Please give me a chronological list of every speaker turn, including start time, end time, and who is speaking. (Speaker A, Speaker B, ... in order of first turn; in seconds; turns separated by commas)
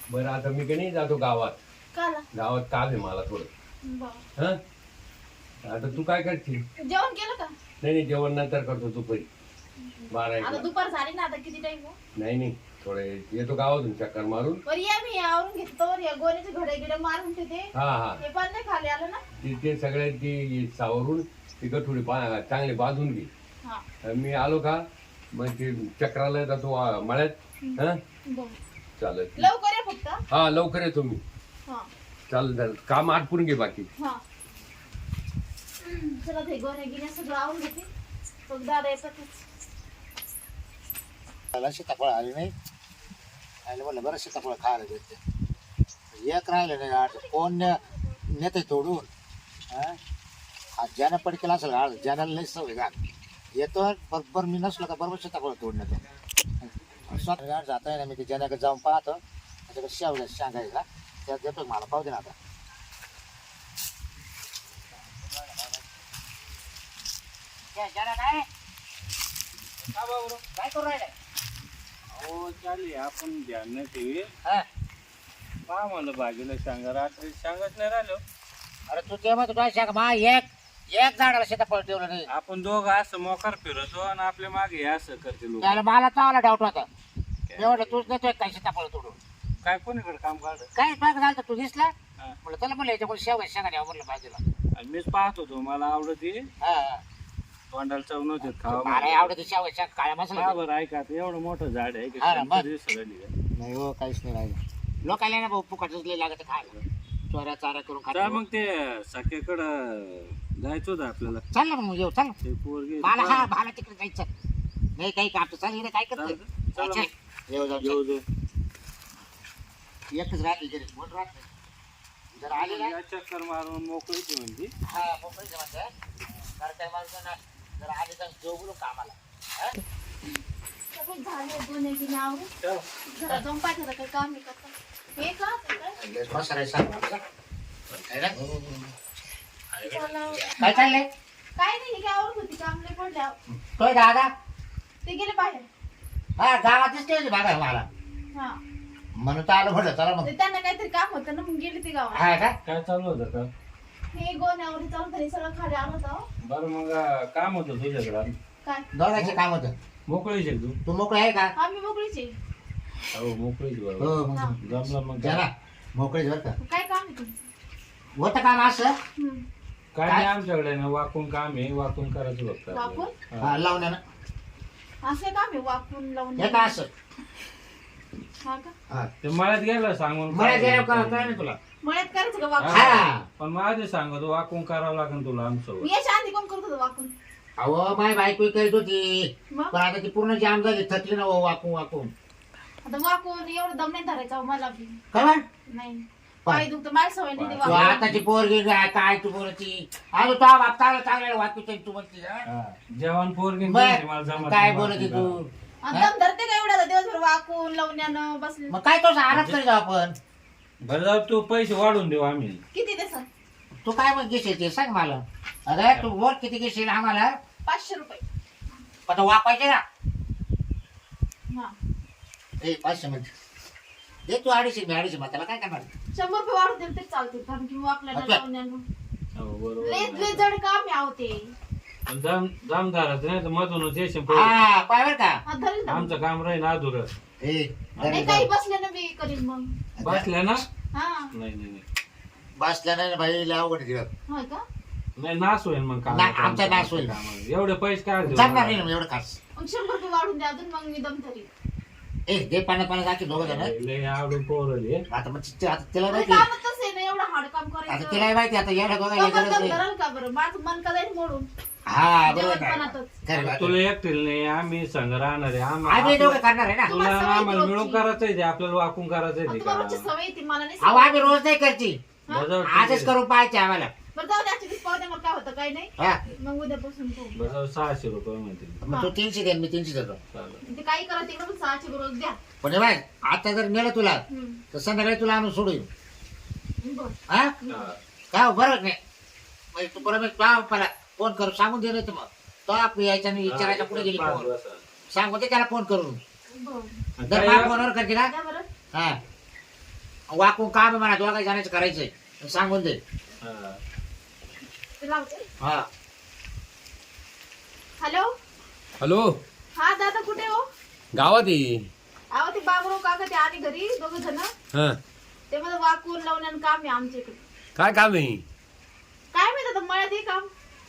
Speaker A: 0.1-1.6, Speaker B: 1.9-2.2, Speaker A: 2.3-3.5, Speaker B: 3.8-4.2, Speaker A: 5.6-6.6, Speaker B: 6.8-7.5, Speaker A: 7.8-9.3, Speaker B: 9.8-12.0, Speaker A: 10.1-10.7, Speaker A: 12.1-14.6, Speaker B: 14.7-19.2, Speaker A: 17.7-18.2, Speaker A: 19.4-23.3, Speaker A: 24.0-24.8, Speaker A: 25.3-28.0, Speaker B: 27.6-28.6, Speaker A: 29.0-29.5, Speaker B: 29.4-30.2, Speaker A: 30.3-31.2, Speaker A: 32.3-33.9, Speaker B: 35.8-37.9, Speaker B: 38.5-39.4, Speaker C: 41.5-42.5, Speaker C: 43.6-45.2, Speaker C: 46.1-47.8, Speaker B: 47.0-48.2, Speaker C: 48.3-49.1, Speaker C: 49.7-50.0, Speaker C: 50.8-52.9, Speaker C: 53.6-56.0, Speaker C: 56.6-62.3, Speaker C: 65.2-65.8, Speaker C: 67.7-68.5, Speaker D: 69.8-70.4, Speaker C: 70.5-71.1, Speaker D: 72.1-74.3, Speaker D: 75.7-78.2, Speaker C: 78.9-82.3, Speaker D: 82.3-85.8, Speaker C: 85.6-86.9, Speaker D: 87.5-88.1, Speaker C: 87.6-89.2, Speaker D: 89.6-90.7, Speaker C: 90.7-91.9, Speaker C: 92.4-94.4, Speaker D: 94.8-96.5, Speaker C: 96.6-97.0, Speaker D: 97.7-99.4, Speaker C: 98.4-100.6, Speaker D: 100.3-103.3, Speaker C: 102.2-102.7, Speaker C: 103.5-108.4, Speaker D: 108.1-111.4, Speaker C: 111.5-112.3, Speaker D: 112.4-113.5, Speaker C: 113.0-114.3, Speaker C: 115.0-118.0, Speaker D: 116.2-117.1, Speaker D: 117.8-118.2, Speaker C: 120.1-121.5, Speaker C: 122.4-123.0, Speaker D: 122.4-124.7, Speaker C: 124.8-125.9, Speaker C: 126.4-129.8, Speaker B: 130.9-132.5, Speaker B: 133.1-135.9, Speaker C: 136.0-137.2, Speaker C: 138.1-138.5, Speaker B: 139.9-140.9, Speaker C: 140.4-141.1, Speaker B: 141.6-143.4, Speaker C: 143.7-144.3, Speaker B: 145.0-145.7, Speaker C: 146.4-147.8, Speaker B: 148.3-148.6, Speaker C: 149.2-150.3, Speaker B: 150.2-152.2, Speaker C: 152.1-152.6, Speaker D: 152.7-153.5, Speaker B: 154.1-156.2, Speaker D: 156.4-158.3, Speaker C: 158.9-159.7, Speaker D: 160.1-160.8, Speaker C: 160.8-161.5, Speaker B: 161.6-162.3, Speaker D: 163.1-165.4, Speaker C: 164.0-166.6, Speaker B: 166.6-167.4, Speaker C: 168.2-169.0, Speaker B: 169.2-169.4, Speaker D: 169.9-173.6, Speaker C: 170.1-170.3, Speaker B: 172.7-173.1, Speaker C: 173.4-174.0, Speaker B: 175.0-176.8, Speaker C: 176.4-176.9, Speaker B: 178.4-178.7, Speaker D: 179.2-181.4, Speaker C: 180.3-181.6, Speaker B: 181.8-182.9, Speaker D: 182.6-185.9, Speaker C: 182.7-183.2, Speaker B: 185.8-187.1, Speaker C: 187.6-192.1, Speaker B: 192.8-195.0, Speaker C: 195.1-195.4, Speaker B: 195.7-198.0, Speaker D: 197.4-198.2, Speaker C: 197.6-202.4, Speaker D: 202.5-205.4, Speaker C: 203.6-206.1, Speaker B: 205.8-208.8, Speaker C: 208.7-210.2, Speaker D: 209.3-209.6, Speaker D: 210.8-212.6, Speaker B: 212.7-213.3, Speaker C: 213.8-217.3, Speaker B: 217.7-218.2, Speaker C: 219.1-219.8, Speaker C: 222.6-223.3, Speaker C: 224.2-225.9, Speaker B: 226.1-228.8, Speaker C: 228.1-228.4, Speaker D: 229.3-230.5, Speaker B: 229.8-231.5, Speaker D: 232.1-234.6, Speaker C: 234.3-235.4, Speaker B: 235.5-236.2, Speaker D: 235.9-237.1, Speaker C: 237.4-238.5, Speaker D: 238.0-238.3, Speaker B: 238.1-239.7, Speaker C: 240.0-240.6, Speaker D: 240.0-240.7, Speaker B: 240.9-241.3, Speaker D: 241.3-241.8, Speaker C: 242.6-244.1, Speaker B: 244.3-244.6, Speaker D: 245.2-248.8, Speaker C: 246.1-247.2, Speaker C: 248.2-249.4, Speaker B: 249.6-251.5, Speaker C: 252.3-253.7, Speaker D: 253.3-255.0, Speaker C: 255.1-256.5, Speaker B: 256.1-258.3, Speaker C: 257.9-259.8, Speaker B: 259.1-261.5, Speaker C: 261.9-263.8, Speaker B: 262.2-263.1, Speaker D: 263.3-270.1, Speaker C: 265.8-266.9, Speaker B: 266.9-268.1, Speaker B: 269.5-271.4, Speaker C: 270.8-272.0, Speaker D: 272.3-273.1, Speaker C: 272.6-273.9, Speaker B: 274.1-277.4, Speaker D: 277.3-278.8, Speaker C: 278.8-280.2, Speaker B: 278.9-279.1, Speaker D: 280.3-280.6, Speaker B: 280.6-282.4, Speaker C: 282.6-285.9, Speaker B: 284.3-284.6, Speaker B: 286.8-287.9, Speaker C: 287.3-287.6, Speaker D: 287.7-288.0, Speaker C: 288.3-289.0, Speaker C: 289.7-294.5, Speaker D: 293.4-294.8, Speaker C: 295.1-296.2, Speaker B: 296.5-297.0, Speaker D: 297.2-297.8, Speaker C: 297.3-298.3, Speaker B: 298.2-298.6, Speaker C: 300.3-303.0, Speaker D: 303.4-303.8, Speaker B: 305.0-305.5, Speaker C: 305.6-305.9, Speaker B: 308.0-308.3, Speaker A: 309.0-309.2, Speaker B: 309.8-310.6, Speaker A: 311.1-311.9, Speaker B: 312.3-314.5, Speaker A: 314.7-315.0, Speaker B: 315.5-317.4, Speaker A: 317.8-318.4, Speaker B: 319.3-320.5